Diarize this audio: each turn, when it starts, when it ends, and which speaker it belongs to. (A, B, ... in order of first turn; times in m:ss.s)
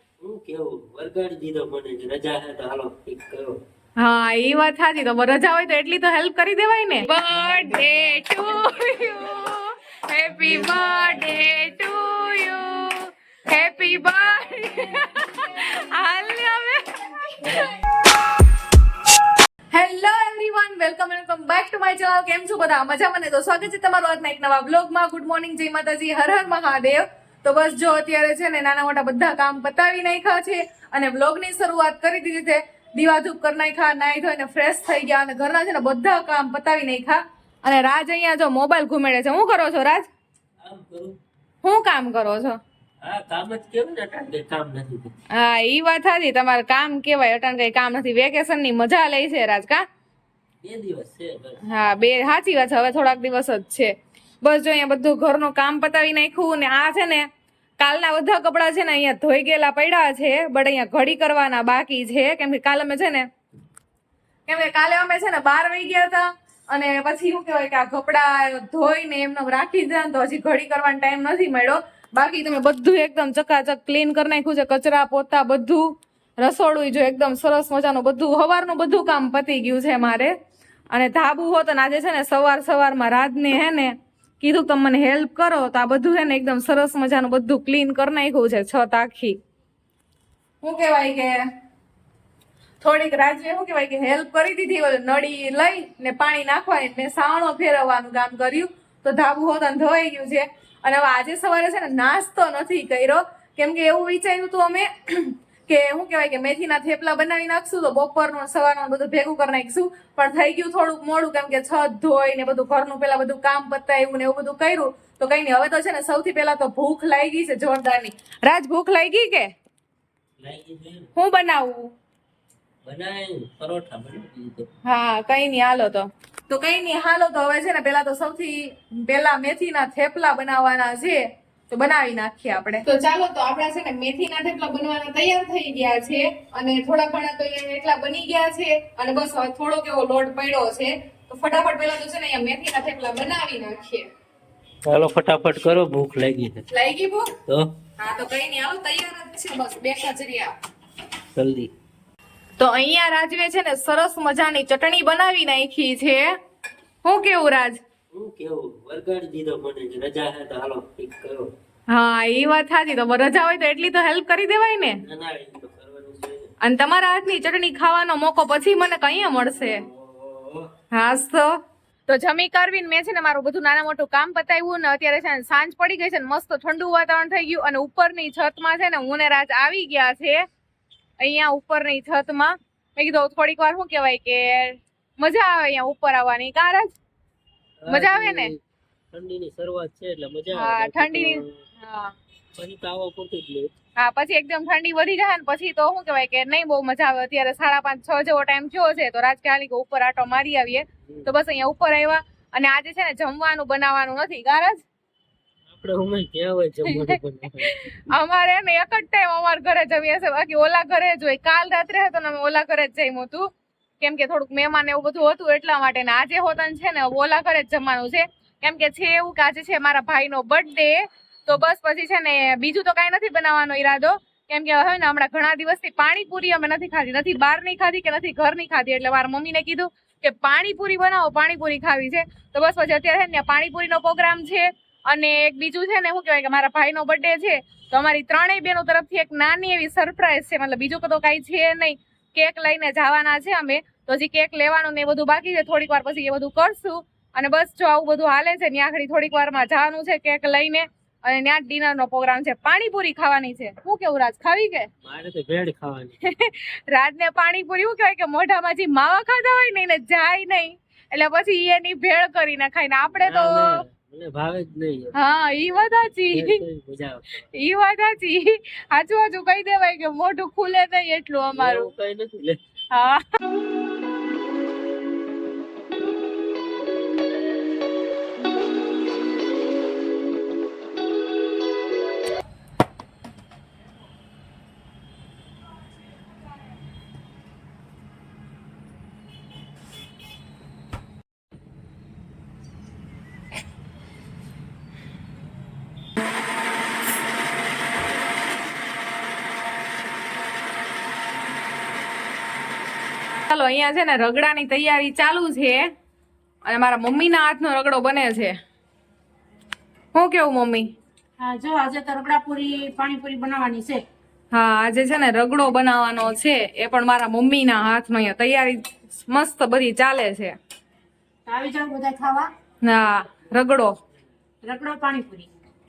0:00.2-0:03.6 A
0:04.0-0:17.8 B
0:19.7-0:40.1 B
0:40.6-0:41.2 A
0:41.6-0:42.6 B
0:43.0-0:45.2 A
0:45.3-0:49.8 B
0:50.6-0:51.6 A
0:51.7-0:57.3 B
0:57.8-1:03.3 B
1:04.5-1:20.3 B
1:20.9-1:29.4 B
1:30.6-1:31.5 B
1:32.8-1:59.5 B
2:00.4-2:01.1 A
2:01.2-2:01.9 B
2:02.8-2:04.7 A
2:04.9-2:24.1 B
2:24.9-2:26.6 A
2:26.7-2:27.3 B
2:28.0-2:30.5 B
2:31.4-2:31.7 A
2:32.6-2:36.4 B
2:37.0-2:37.8 B
2:38.1-2:41.5 A
2:41.9-2:45.0 B
2:45.0-2:46.5 A
2:46.6-2:49.8 B
2:49.4-2:50.7 A
2:50.9-2:51.6 B
2:52.1-3:00.4 B
3:01.2-3:06.9 B
3:07.8-3:08.6 A
3:07.9-3:08.5 B
3:09.1-3:11.6 A
3:10.5-3:12.1 B
3:12.6-3:13.7 A
3:14.0-3:24.8 B
3:25.7-3:27.8 A
3:26.9-3:33.5 B
3:34.0-4:14.9 B
4:15.0-4:16.2 A
4:16.2-4:23.8 B
4:23.2-4:25.2 A
4:25.2-4:26.6 B
4:26.3-4:27.3 A
4:27.6-4:31.9 B
4:31.6-4:32.6 A
4:32.9-4:33.2 B
5:03.5-5:05.9 B
5:06.7-5:08.6 B
5:10.1-5:10.9 B
5:11.4-5:14.0 C
5:14.5-5:20.6 B
5:21.5-5:22.5 C
5:22.8-5:23.9 B
5:24.6-5:25.5 C